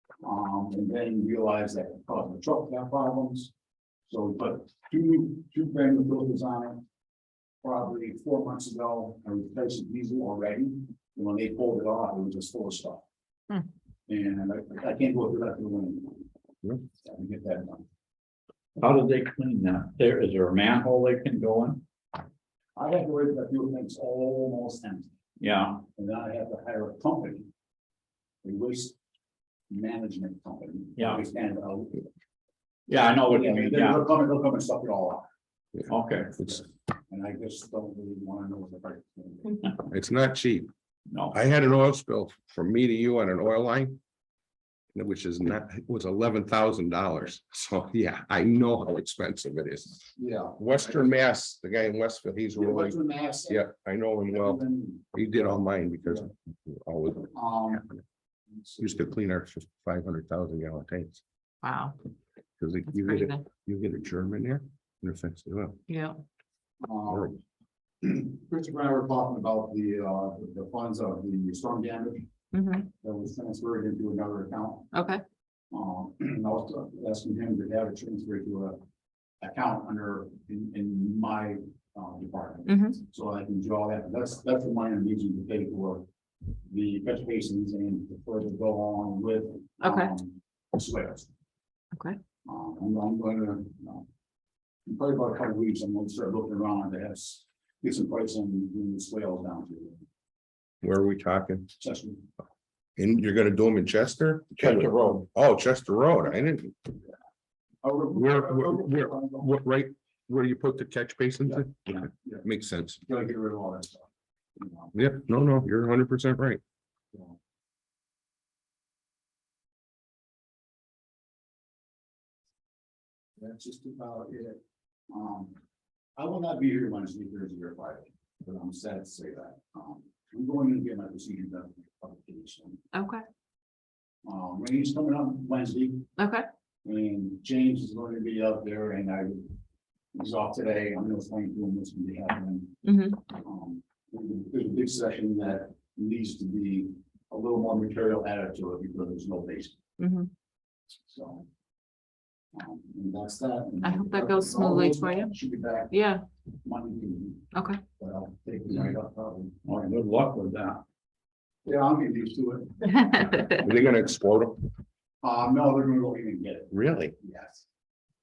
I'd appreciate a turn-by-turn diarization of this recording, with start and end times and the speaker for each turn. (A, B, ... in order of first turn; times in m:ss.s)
0:00.2-0:03.5 A
0:04.1-0:06.8 A
0:07.6-0:13.0 A
0:14.1-0:16.3 A
0:16.8-0:17.9 A
0:18.8-0:21.8 B
0:22.8-0:25.1 A
0:25.4-0:25.8 B
0:25.8-0:27.5 A
0:28.4-0:29.0 A
0:29.7-0:32.0 A
0:32.9-0:34.0 B
0:33.3-0:35.3 A
0:35.9-0:36.4 B
0:36.4-0:39.8 A
0:39.9-0:40.7 C
0:41.1-0:41.4 B
0:41.3-0:44.0 C
0:44.9-0:53.0 C
0:50.2-0:51.1 A
0:52.6-0:53.7 A
0:53.5-0:54.6 C
0:54.3-0:55.1 A
0:55.1-0:57.3 C
0:57.3-0:57.8 A
0:58.8-1:01.2 C
1:01.6-1:02.0 D
1:02.6-1:05.8 C
1:02.9-1:03.4 D
1:05.9-1:06.2 D
1:06.8-1:07.4 A
1:07.1-1:07.3 C
1:08.0-1:12.3 A
1:12.5-1:12.9 D
1:13.0-1:14.9 A
1:14.9-1:15.2 D
1:15.7-1:18.8 A
1:19.4-1:26.0 A
1:22.7-1:22.9 D
1:26.7-1:31.3 A
1:29.8-1:30.1 D
1:32.4-1:34.1 A
1:34.9-1:40.0 A
1:40.8-1:41.7 C
1:41.8-1:42.3 A
1:43.0-1:46.9 C
1:47.8-1:49.5 A
1:48.1-1:53.0 C
1:51.5-1:52.5 A
1:53.0-1:55.0 A
1:55.0-1:56.6 C
2:03.4-2:05.6 A
2:06.2-2:12.8 A
2:12.9-2:13.2 D
2:14.2-2:16.1 A
2:16.2-2:16.5 D
2:16.8-2:19.6 A
2:20.1-2:29.8 A
2:22.8-2:23.2 D
2:30.0-2:30.3 D
2:31.1-2:31.5 A
2:32.5-2:36.0 A
2:33.8-2:35.3 D
2:35.9-2:36.2 D
2:36.6-2:39.6 A
2:37.5-2:37.8 D
2:39.6-2:40.8 B
2:41.6-2:43.6 A
2:43.6-2:44.7 C
2:45.2-2:47.7 A
2:46.7-2:47.2 C